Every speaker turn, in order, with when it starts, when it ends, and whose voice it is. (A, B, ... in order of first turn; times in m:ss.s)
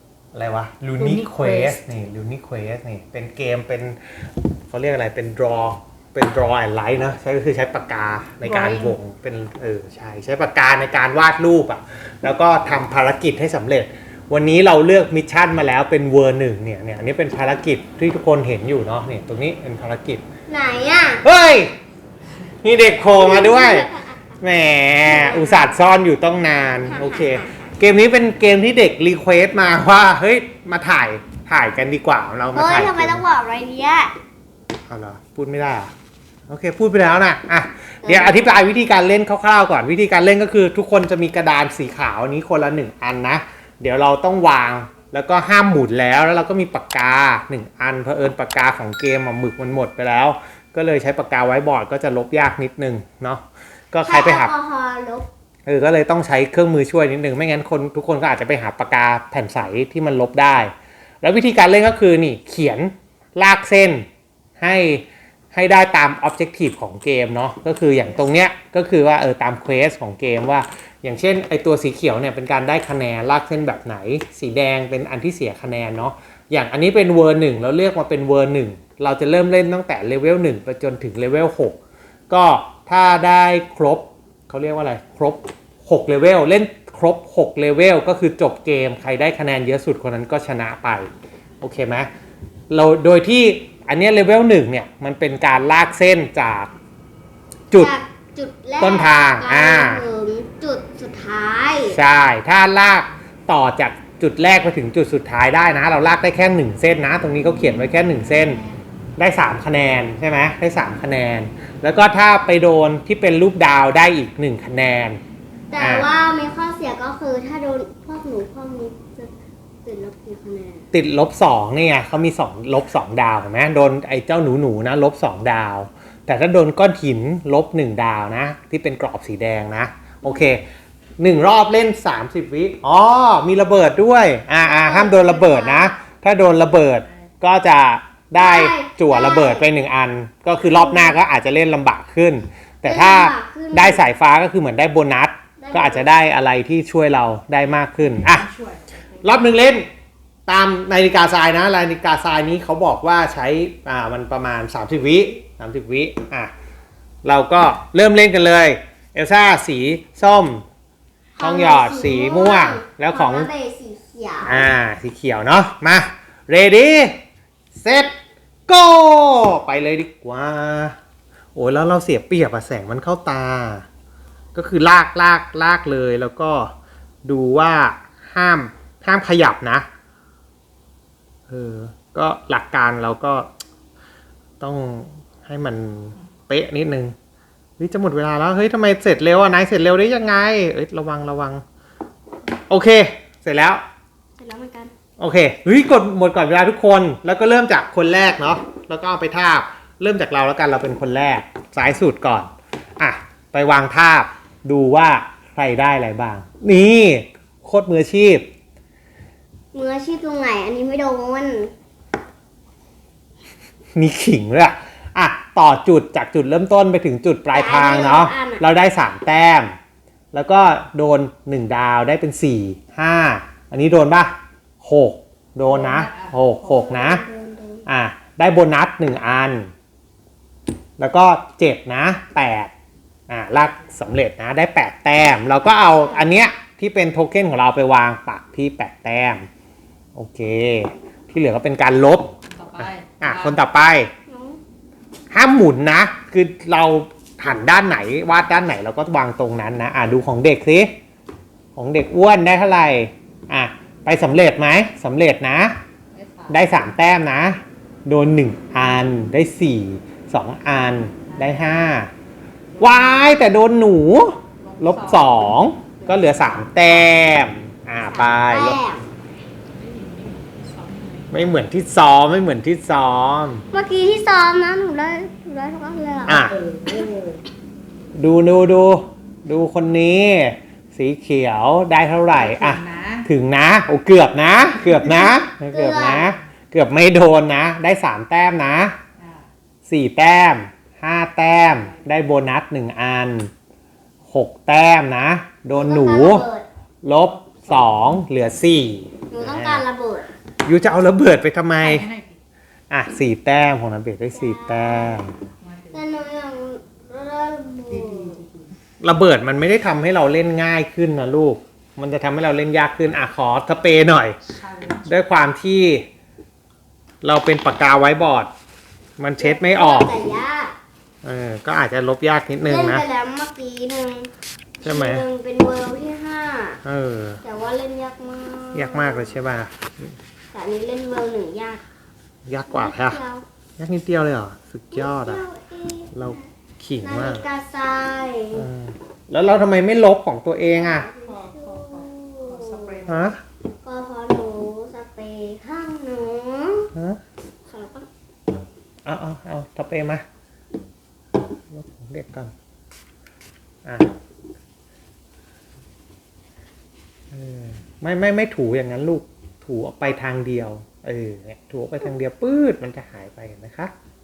0:00.3-0:04.0 A
0:01.0-0:01.8 B
0:04.7-0:20.2 A
0:08.4-0:09.0 B
0:20.5-0:21.2 C
0:21.2-0:21.7 A
0:22.6-0:23.9 A
0:23.1-0:24.3 C
0:24.4-0:33.2 A
0:25.0-0:25.7 C
0:26.8-0:27.7 C
0:32.5-0:34.1 C
0:34.9-0:35.9 A
0:36.5-0:54.5 A
0:38.0-0:38.5 C
0:54.0-0:55.3 C
0:55.6-1:04.1 A
1:04.6-1:21.8 A
1:22.3-1:31.1 A
1:31.6-1:32.1 A
1:32.7-1:36.7 A
1:37.7-1:42.0 C
1:38.8-1:40.0 A
1:41.9-1:48.6 A
1:49.2-1:55.2 A
1:55.7-1:59.3 C
1:55.8-1:56.1 A
1:59.8-2:00.9 C
2:00.9-2:10.6 A
2:11.2-2:28.5 A
2:14.6-2:16.0 C
2:18.3-2:19.6 C
2:20.7-2:21.2 C
2:22.8-2:24.0 C
2:25.6-2:26.1 C
2:28.0-2:29.5 B
2:29.2-2:29.9 A
2:30.5-2:36.5 A
2:37.2-2:40.6 A
2:41.3-2:44.7 C
2:41.4-2:43.5 A
2:44.4-2:47.2 A
2:47.8-2:48.1 A
2:48.7-2:51.0 A
2:51.5-2:53.8 A
2:54.5-2:56.7 A
2:57.2-2:59.9 A
3:01.5-3:03.5 A
3:04.6-3:07.1 A
3:07.8-3:11.6 A
3:12.7-3:13.8 A
3:14.4-3:14.9 C
3:15.2-3:28.5 A
3:29.7-3:31.7 C
3:33.9-3:39.7 A
3:37.5-3:38.6 C
3:40.3-3:47.2 A
3:45.7-3:46.4 B
3:46.6-3:47.8 C
3:47.8-3:49.7 A
3:51.0-3:52.7 A
3:53.3-3:59.5 A
3:55.8-3:56.4 C
4:00.2-4:04.1 A
4:02.5-4:03.6 B
4:04.3-4:04.6 C
4:05.3-4:10.9 A
4:11.8-4:15.8 A
4:16.1-4:16.8 B
4:16.5-4:22.1 A
4:21.3-4:21.7 B
4:22.7-4:23.5 B
4:22.8-4:28.8 A
4:24.6-4:26.5 B
4:28.0-4:29.1 C
4:29.7-4:31.5 B
4:31.3-4:33.6 A
4:33.7-4:37.1 C
4:36.3-4:36.6 A
4:36.3-4:37.4 B
4:38.2-4:49.0 A
4:42.4-4:43.3 B
4:45.7-4:46.3 C
4:49.2-4:49.5 B
4:49.9-4:53.5 A
4:51.7-4:52.2 B
4:54.3-4:56.4 A
4:55.7-4:56.6 C
4:57.0-4:59.8 A
4:57.4-4:58.2 B
4:59.3-5:00.3 C
5:00.6-5:02.1 A
5:01.8-5:02.4 B
5:02.9-5:05.4 A
5:04.3-5:05.3 C
5:05.6-5:06.2 B
5:05.9-5:08.4 C
5:07.9-5:08.7 B
5:09.0-5:14.4 A
5:14.5-5:15.1 B
5:15.0-5:16.1 A
5:17.2-5:18.5 A
5:19.2-5:20.1 A
5:19.4-5:20.7 C
5:21.2-5:23.0 A
5:22.6-5:26.8 C
5:24.8-5:25.2 A
5:26.8-5:27.4 A
5:27.4-5:29.3 C
5:28.7-5:30.1 A
5:30.5-5:31.8 C
5:32.5-5:33.2 A
5:32.7-5:33.4 C
5:33.8-5:35.4 A
5:34.9-5:36.5 C
5:36.1-5:37.4 A
5:37.0-5:38.7 C
5:38.5-5:41.1 A
5:40.7-5:43.0 C
5:41.2-5:43.3 B
5:43.1-5:43.4 A
5:43.8-5:46.9 C
5:46.9-5:47.2 A
5:47.7-5:48.1 C
5:49.0-5:50.2 A
5:51.7-5:52.5 A
5:53.8-5:54.1 A
5:57.3-6:03.9 A